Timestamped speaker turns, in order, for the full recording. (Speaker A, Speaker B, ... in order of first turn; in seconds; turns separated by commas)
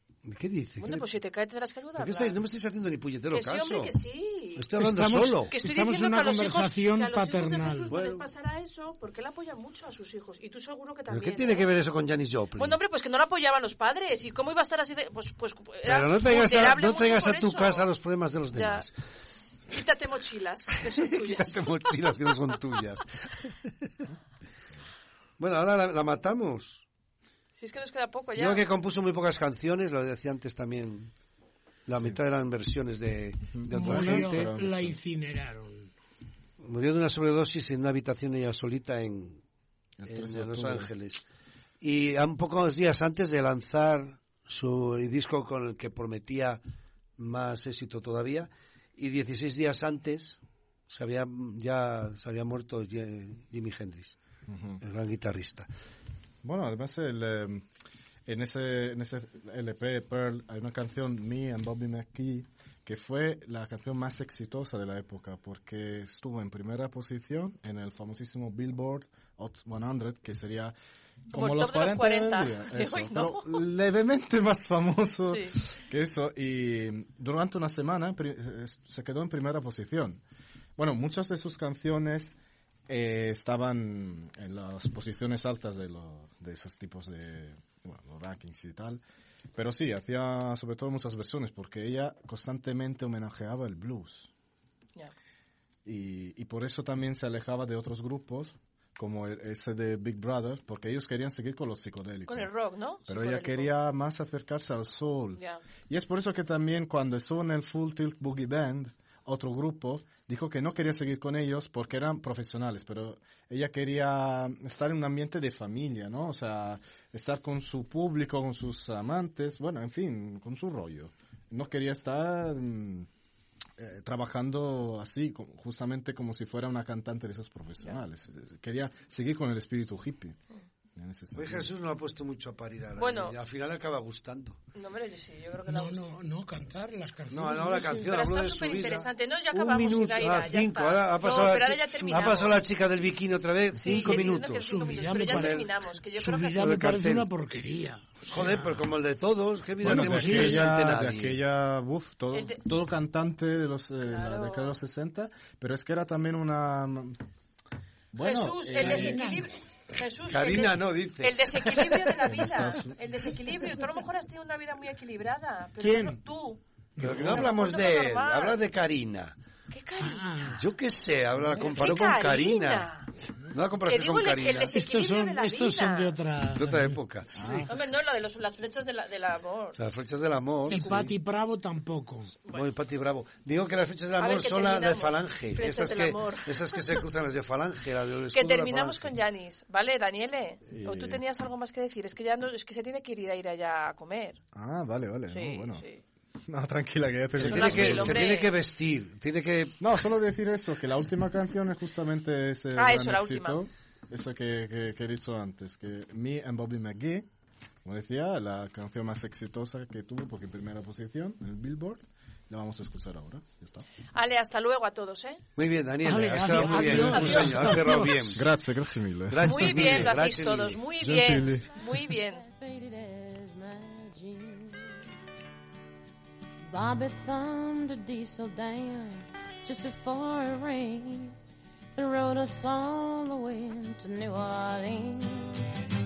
Speaker A: 0.2-1.1, Speaker B: 0.8-2.4, Speaker A: 1.9-4.0, Speaker B: 3.3-4.7, Speaker A: 4.6-5.5, Speaker C: 4.8-7.9, Speaker B: 5.5-11.7, Speaker A: 7.9-8.3, Speaker A: 11.1-12.8, Speaker B: 12.6-17.9, Speaker A: 15.8-18.9, Speaker B: 18.5-18.8, Speaker B: 19.7-22.1, Speaker A: 20.8-23.9, Speaker A: 25.4-26.8, Speaker B: 27.6-28.7, Speaker A: 28.4-31.1, Speaker A: 31.9-34.5, Speaker D: 33.5-35.0, Speaker C: 33.7-35.9, Speaker A: 36.6-39.4, Speaker D: 40.0-40.9, Speaker A: 40.1-41.2, Speaker A: 41.8-46.6, Speaker A: 47.2-54.2, Speaker D: 54.5-54.8, Speaker A: 54.8-55.7, Speaker D: 56.4-57.6, Speaker D: 58.2-70.7, Speaker D: 71.3-80.2, Speaker B: 71.3-73.6, Speaker B: 75.2-75.5, Speaker D: 80.8-82.3, Speaker D: 82.9-89.0, Speaker D: 89.5-94.3, Speaker D: 95.8-102.5, Speaker B: 102.3-103.7, Speaker D: 103.0-123.1, Speaker D: 123.8-130.4, Speaker D: 130.9-131.7, Speaker A: 131.3-134.6, Speaker B: 133.0-133.4, Speaker B: 134.7-136.1, Speaker C: 135.7-138.3, Speaker A: 137.3-145.7, Speaker B: 138.0-142.6, Speaker C: 141.3-142.6, Speaker B: 143.8-146.8, Speaker C: 143.9-148.8, Speaker A: 146.6-147.3, Speaker A: 148.3-151.4, Speaker C: 149.8-150.7, Speaker D: 149.8-157.2, Speaker B: 152.3-152.6, Speaker B: 154.1-154.8, Speaker D: 158.1-159.2, Speaker B: 158.2-166.6, Speaker C: 158.8-159.5, Speaker A: 160.3-162.2, Speaker D: 162.2-163.0, Speaker C: 165.8-166.2, Speaker C: 167.0-167.5, Speaker A: 167.0-169.3, Speaker B: 167.2-168.6, Speaker B: 169.7-170.6, Speaker C: 170.0-170.7, Speaker A: 170.6-172.9, Speaker D: 171.4-171.7, Speaker B: 171.7-173.1, Speaker A: 173.5-174.7, Speaker B: 173.9-176.1, Speaker C: 174.7-177.7, Speaker A: 176.6-177.4, Speaker D: 177.3-177.7, Speaker B: 177.7-179.8, Speaker A: 179.8-181.1, Speaker C: 180.7-182.4, Speaker B: 180.7-181.1, Speaker A: 182.5-189.1, Speaker B: 184.2-187.0, Speaker B: 188.3-194.4, Speaker D: 190.7-191.2, Speaker D: 194.5-195.8, Speaker B: 195.3-196.0, Speaker D: 196.5-198.3, Speaker B: 197.3-198.5, Speaker A: 197.4-199.8, Speaker D: 199.8-207.3, Speaker B: 202.7-203.6, Speaker D: 207.8-213.8, Speaker B: 214.1-215.4, Speaker A: 215.6-218.5, Speaker C: 216.0-218.3, Speaker B: 217.0-217.5, Speaker D: 218.2-220.2, Speaker A: 219.3-220.8, Speaker B: 219.4-222.4, Speaker D: 221.0-221.7, Speaker E: 221.4-225.0, Speaker E: 226.7-231.3, Speaker E: 231.9-235.7